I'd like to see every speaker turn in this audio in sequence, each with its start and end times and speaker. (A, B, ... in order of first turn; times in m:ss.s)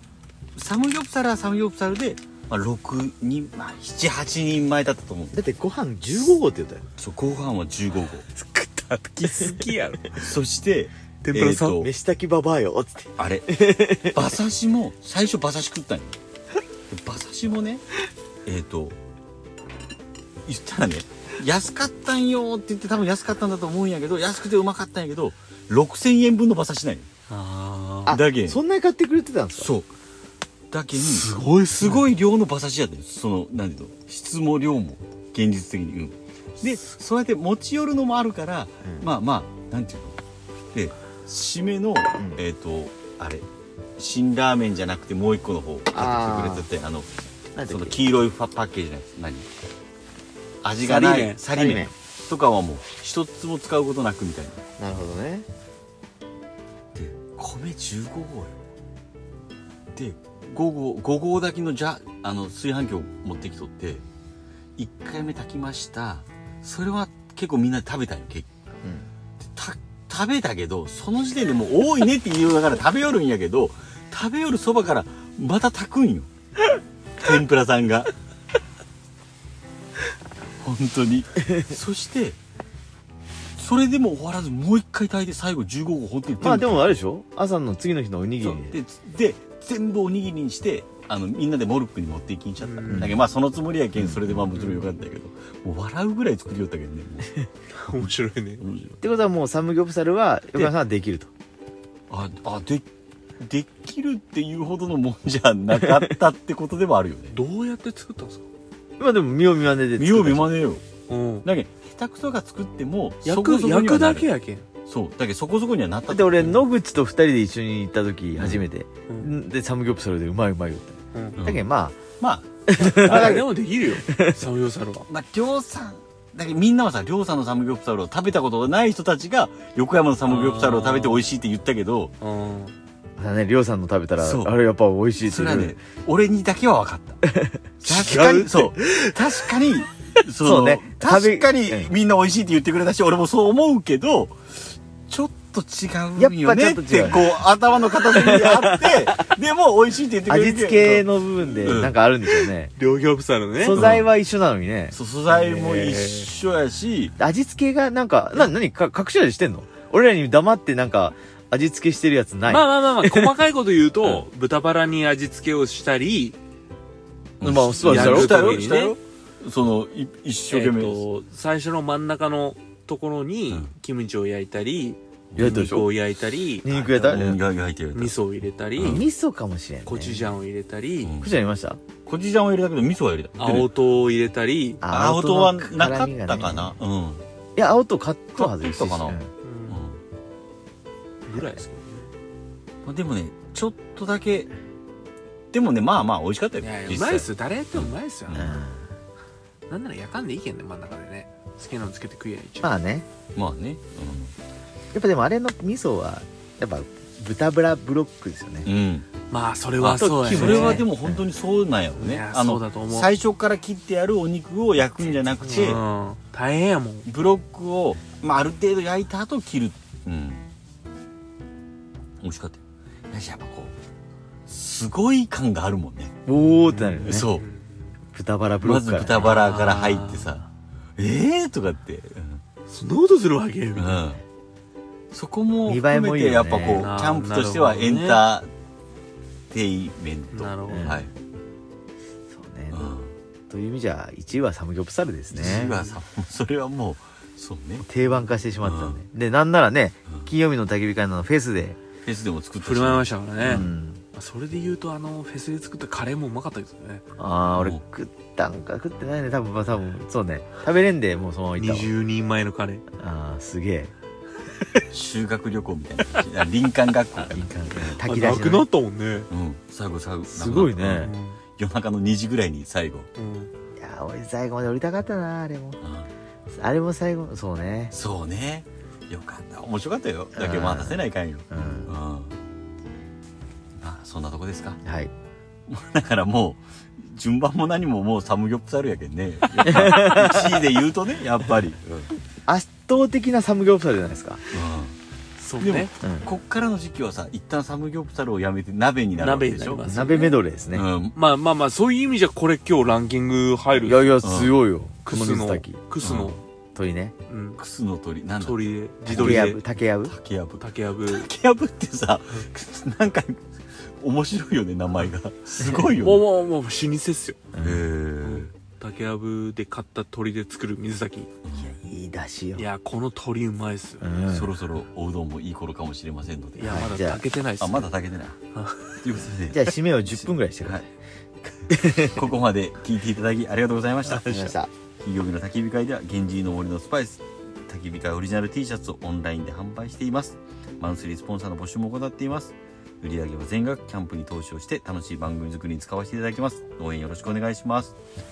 0:00.6-0:05.4 A
0:05.3-0:06.8 B
0:07.0-0:08.3 A
0:08.3-0:10.2 C
0:10.1-0:11.9 A
0:11.2-0:11.8 C
0:11.8-0:14.2 B
0:13.2-0:16.2 A
0:16.9-0:17.8 A
0:18.4-0:19.0 A
0:20.4-0:27.1 A
0:27.3-0:28.1 C
0:28.0-0:29.7 B
0:28.1-0:28.6 A
0:29.6-0:29.9 A
0:30.7-0:40.2 A
0:31.0-0:32.0 C
0:40.7-0:43.4 A
0:44.0-0:47.1 A
0:45.9-0:46.7 B
0:47.6-0:48.0 B
0:47.7-0:49.5 A
0:50.6-0:54.6 A
0:50.8-0:51.9 B
0:51.0-0:51.4 C
0:54.8-0:55.5 B
0:56.9-0:58.6 A
0:59.9-1:04.0 A
1:04.8-1:08.5 A
1:08.8-1:09.1 B
1:09.4-1:16.3 A
1:17.2-1:18.1 A
1:20.6-1:22.4 A
1:23.6-1:26.9 A
1:26.4-1:28.8 B
1:28.4-1:37.4 A
1:32.6-1:33.2 C
1:32.9-1:33.2 B
1:34.0-1:34.3 B
1:34.5-1:34.9 C
1:37.7-1:38.6 C
1:38.6-1:39.0 A
1:39.0-1:41.3 B
1:42.1-1:42.8 A
1:43.4-1:47.4 A
1:47.3-1:48.4 C
1:49.0-1:50.5 B
1:50.0-1:50.8 A
1:51.1-1:51.5 C
1:51.4-1:54.3 A
1:53.2-1:54.6 C
1:54.9-1:56.6 A
1:56.1-2:02.0 B
1:58.4-1:58.6 A
2:01.1-2:01.4 C
2:01.4-2:01.6 A
2:02.2-2:03.4 A
2:02.7-2:03.5 B
2:02.9-2:05.1 C
2:04.0-2:04.4 B
2:05.1-2:12.1 A
2:10.2-2:11.2 C
2:12.2-2:12.7 C
2:13.2-2:15.8 B
2:14.2-2:14.5 A
2:15.2-2:17.2 A
2:17.3-2:17.6 B
2:17.8-2:24.4 A
2:17.8-2:19.5 C
2:20.4-2:21.9 B
2:25.1-2:31.9 A
2:26.2-2:27.4 B
2:28.0-2:29.2 B
2:30.2-2:32.7 B
2:32.8-2:33.9 C
2:33.6-2:35.0 B
2:33.7-2:34.1 A
2:34.9-2:37.2 A
2:35.3-2:36.3 C
2:37.2-2:43.4 B
2:42.4-2:46.4 C
2:47.4-2:51.1 A
2:47.4-2:48.8 B
2:47.8-2:49.0 C
2:50.5-2:57.3 C
2:55.3-2:55.8 A
2:55.4-2:55.9 B
2:56.6-2:57.4 B
2:57.0-2:58.2 A
2:57.9-2:59.0 C
2:58.8-2:59.0 A
2:58.8-3:00.3 B
2:59.8-3:01.1 C
3:01.0-3:01.3 A
3:01.2-3:01.8 B
3:02.0-3:03.7 A
3:03.4-3:04.8 C
3:04.8-3:06.7 B
3:04.9-3:07.2 A
3:07.6-3:09.3 B
3:08.3-3:10.0 A
3:09.4-3:09.8 C
3:11.2-3:12.1 C
3:11.3-3:11.6 B
3:12.8-3:14.5 A
3:15.5-3:18.6 A
3:16.6-3:18.6 C
3:18.3-3:18.8 B
3:19.7-3:22.7 C
3:22.6-3:23.1 B
3:23.3-3:24.3 A
3:24.9-3:28.7 B
3:28.6-3:29.1 A
3:29.3-3:30.8 C
3:29.8-3:35.8 A
3:30.0-3:31.2 B
3:32.0-3:33.1 C
3:35.4-3:37.1 C
3:35.5-3:35.8 B
3:37.0-3:40.4 A
3:42.2-3:43.7 A
3:44.5-3:46.1 A
3:46.2-3:47.3 B
3:46.4-3:47.9 C
3:47.0-3:47.4 A
3:48.1-3:49.4 B
3:48.6-3:50.4 A
3:49.2-3:50.4 C
3:51.0-3:52.4 A
3:52.7-3:54.0 C
3:53.8-3:54.2 A
3:55.1-3:58.5 A
3:55.6-3:56.9 B
3:56.7-3:58.2 C
3:59.5-4:01.1 A
4:00.3-4:01.0 C
4:00.7-4:01.1 B
4:02.3-4:02.9 B
4:02.7-4:03.1 A
4:03.5-4:05.7 B
4:05.3-4:07.9 A
4:05.4-4:06.0 C
4:07.8-4:11.8 B
4:08.6-4:09.0 A
4:12.0-4:13.7 A
4:12.6-4:17.0 C
4:13.4-4:14.0 B
4:17.2-4:21.9 B
4:17.5-4:17.8 A
4:21.6-4:22.8 C
4:23.0-4:23.9 B
4:24.6-4:24.8 C
4:24.9-4:28.0 A
4:27.3-4:28.6 B
4:28.0-4:29.3 C
4:29.3-4:33.1 A
4:30.3-4:31.1 B
4:31.0-4:31.4 C
4:33.2-4:33.5 C
4:33.8-4:35.8 B
4:35.8-4:36.1 A
4:36.5-4:37.9 B
4:37.9-4:42.4 A
4:40.4-4:41.9 B
4:43.8-4:44.8 A
4:44.8-4:45.1 B
4:45.7-4:52.1 A
4:49.6-4:50.4 B
4:52.4-4:54.4 B
4:54.5-4:55.0 A
4:55.4-4:55.9 C
4:55.6-4:59.9 A
4:56.0-4:56.3 B
4:59.1-5:00.4 C
4:59.8-5:00.8 B
5:00.7-5:01.2 A
5:01.1-5:04.2 C
5:03.8-5:05.8 B
5:04.2-5:04.6 A
5:05.0-5:06.4 C
5:06.0-5:06.4 A
5:06.7-5:07.1 B
5:07.3-5:07.6 C
5:07.6-5:16.2 A
5:08.4-5:09.6 C
5:09.1-5:10.1 B
5:10.6-5:11.3 C
5:16.0-5:17.4 C
5:17.5-5:17.8 B
5:17.6-5:18.5 A
5:18.2-5:21.3 C
5:21.4-5:21.8 A
5:21.8-5:22.7 B
5:22.5-5:24.4 C
5:24.0-5:24.5 B
5:24.2-5:26.8 A
5:26.6-5:27.9 C
5:26.6-5:27.2 B
5:27.6-5:28.4 A
5:28.5-5:29.0 C
5:29.0-5:30.9 A
5:29.5-5:30.8 B
5:31.5-5:32.3 B
5:32.0-5:34.3 A
5:34.1-5:34.5 C
5:34.1-5:34.7 B
5:35.0-5:47.9 A